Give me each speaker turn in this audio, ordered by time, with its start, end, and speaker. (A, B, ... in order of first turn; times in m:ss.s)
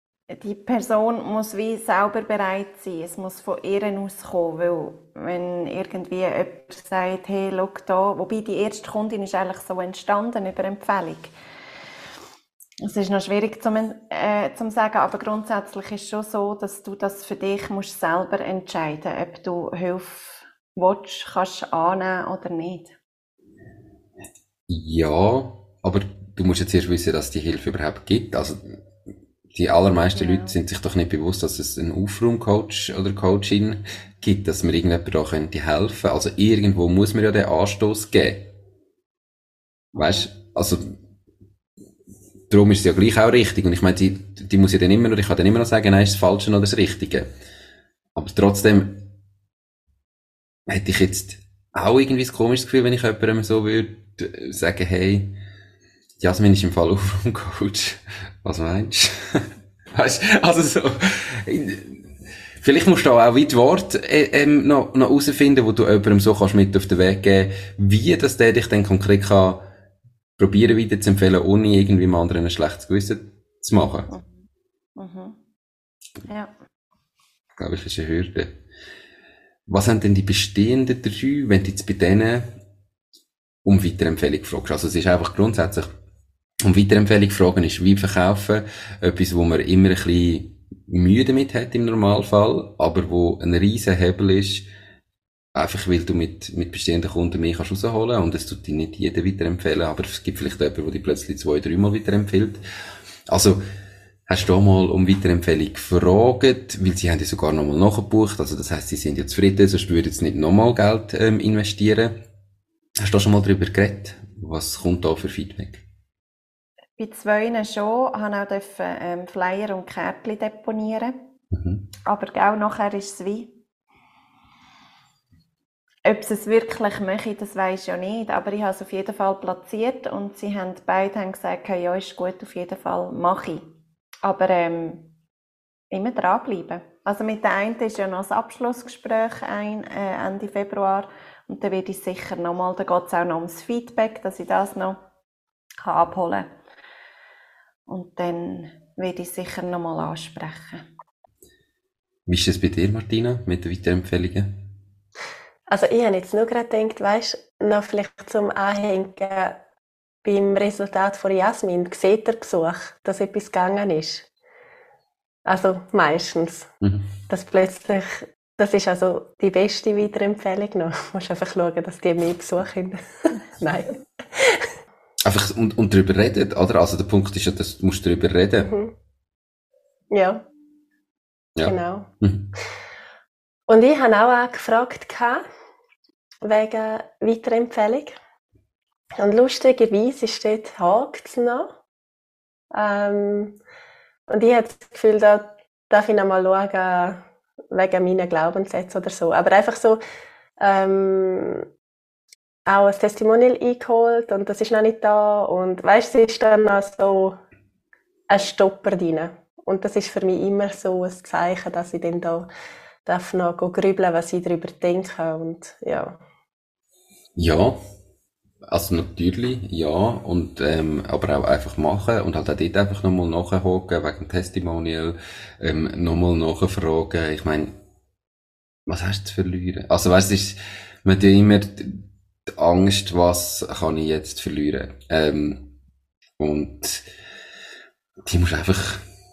0:00.3-0:11.3 A
0:12.8-0:23.0 A
0:24.7-0:28.8 B
0:29.5-0:38.5 B
0:30.2-0:30.5 A
0:39.9-0:40.9 B
0:42.5-0:47.3 B
0:48.2-0:49.0 B
0:50.7-0:55.3 B
0:56.2-1:02.0 B
1:02.6-1:09.7 B
1:10.4-1:14.1 B
1:14.1-1:14.4 A
1:15.0-1:15.4 A
1:16.3-1:16.5 A
1:17.6-1:18.5 B
1:19.7-1:22.5 B
1:23.6-1:25.9 B
1:26.6-1:34.7 B
1:35.6-1:42.6 B
1:43.3-1:43.6 B
1:44.3-1:52.1 B
1:53.0-1:55.8 B
1:57.0-2:01.2 A
2:01.5-2:01.8 B
2:02.1-2:03.6 A
2:06.1-2:13.6 A
2:14.2-2:15.1 A
2:15.9-2:25.0 A
2:25.8-2:26.5 A
2:27.9-2:30.8 A
2:32.3-2:34.5 B
2:35.7-2:39.6 C
2:40.2-2:44.3 C
2:45.5-2:46.7 C
2:47.3-2:54.7 C
2:55.2-2:58.7 B
2:58.6-2:58.9 C
3:00.1-3:00.4 C
3:01.6-3:02.5 B
3:01.6-3:02.1 C
3:03.7-3:05.4 C
3:06.4-3:08.2 C
3:09.2-3:11.7 C
3:12.7-3:13.6 C
3:14.3-3:20.0 C
3:20.6-3:21.7 C
3:22.7-3:27.4 C
3:28.3-3:32.5 C
3:33.0-3:36.2 C
3:37.4-3:37.8 B
3:38.7-3:47.7 B
3:48.9-3:55.6 B
3:56.4-3:57.0 B
3:58.3-3:59.0 B